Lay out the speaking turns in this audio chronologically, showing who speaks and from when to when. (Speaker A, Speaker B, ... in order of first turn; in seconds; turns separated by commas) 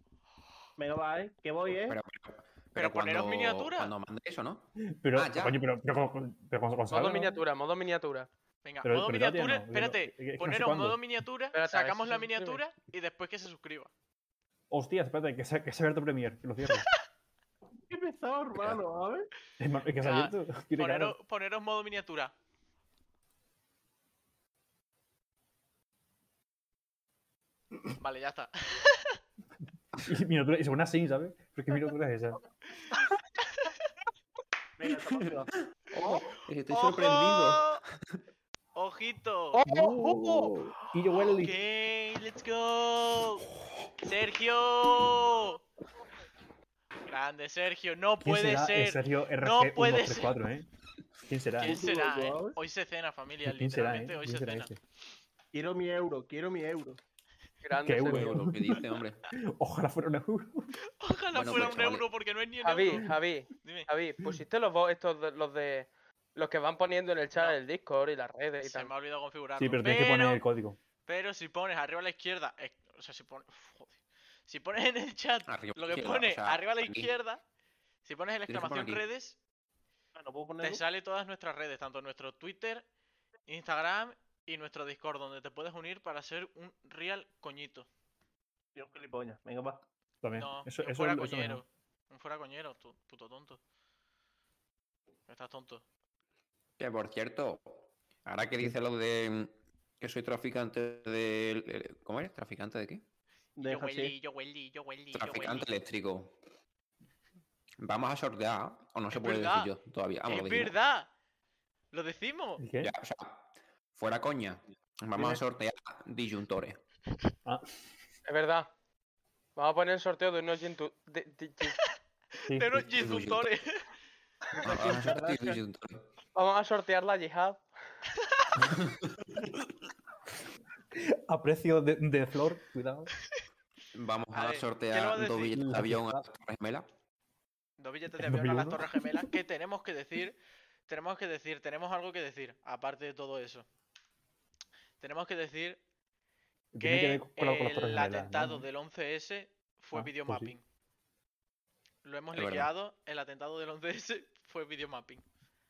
Speaker A: 0.8-2.0, Speaker B: 1.8-5.7, Speaker C: 2.8-3.9, Speaker D: 5.0-7.4, Speaker E: 6.9-8.3, Speaker C: 8.6-13.9, Speaker D: 8.8-11.0, Speaker E: 11.5-12.6, Speaker D: 14.7-16.9, Speaker A: 17.9-19.3, Speaker D: 19.6-21.2, Speaker C: 20.0-22.3, Speaker C: 28.0-29.2, Speaker D: 30.0-32.4, Speaker A: 34.8-35.5, Speaker B: 34.9-37.8, Speaker C: 36.7-37.8, Speaker C: 38.8-39.6, Speaker D: 39.7-41.6, Speaker C: 41.1-43.5, Speaker C: 44.0-45.6, Speaker C: 47.1-50.4, Speaker D: 48.2-50.7, Speaker D: 51.3-51.8, Speaker C: 51.6-54.7, Speaker A: 51.6-52.6, Speaker D: 53.4-54.8, Speaker A: 55.5-57.0, Speaker E: 57.6-58.4, Speaker D: 57.8-58.9, Speaker B: 58.1-59.2, Speaker D: 59.5-60.7, Speaker C: 61.0-63.9, Speaker B: 61.3-62.1, Speaker E: 62.6-68.9, Speaker C: 67.3-67.6, Speaker C: 68.6-70.4, Speaker D: 69.6-70.8, Speaker C: 71.1-74.0, Speaker C: 74.5-77.4, Speaker B: 75.5-77.1, Speaker C: 78.0-79.4, Speaker B: 78.5-79.0, Speaker A: 80.2-80.8, Speaker C: 80.6-82.9, Speaker C: 83.5-87.9, Speaker A: 88.8-89.8, Speaker D: 90.2-91.6, Speaker C: 90.4-93.6, Speaker C: 95.3-95.8, Speaker B: 96.8-103.0, Speaker A: 103.6-104.2, Speaker C: 103.6-105.7, Speaker B: 105.1-106.3, Speaker B: 107.8-110.8, Speaker C: 109.1-109.7, Speaker C: 110.3-111.1, Speaker C: 111.9-112.6, Speaker D: 112.6-112.9, Speaker B: 112.8-116.8, Speaker A: 115.2-115.4, Speaker E: 118.3-118.7, Speaker E: 119.6-121.8, Speaker C: 122.5-123.9, Speaker D: 122.5-123.2, Speaker B: 123.0-123.5, Speaker B: 124.6-126.1, Speaker A: 124.8-125.5, Speaker E: 126.3-127.6, Speaker B: 128.6-129.6, Speaker D: 130.9-133.1, Speaker B: 133.9-136.9, Speaker C: 134.3-135.6, Speaker D: 135.5-136.2, Speaker C: 137.8-143.7, Speaker D: 138.2-139.3, Speaker C: 145.0-145.8, Speaker D: 146.7-148.7, Speaker C: 146.8-150.6, Speaker D: 149.9-150.5, Speaker C: 152.0-155.2, Speaker B: 152.3-152.7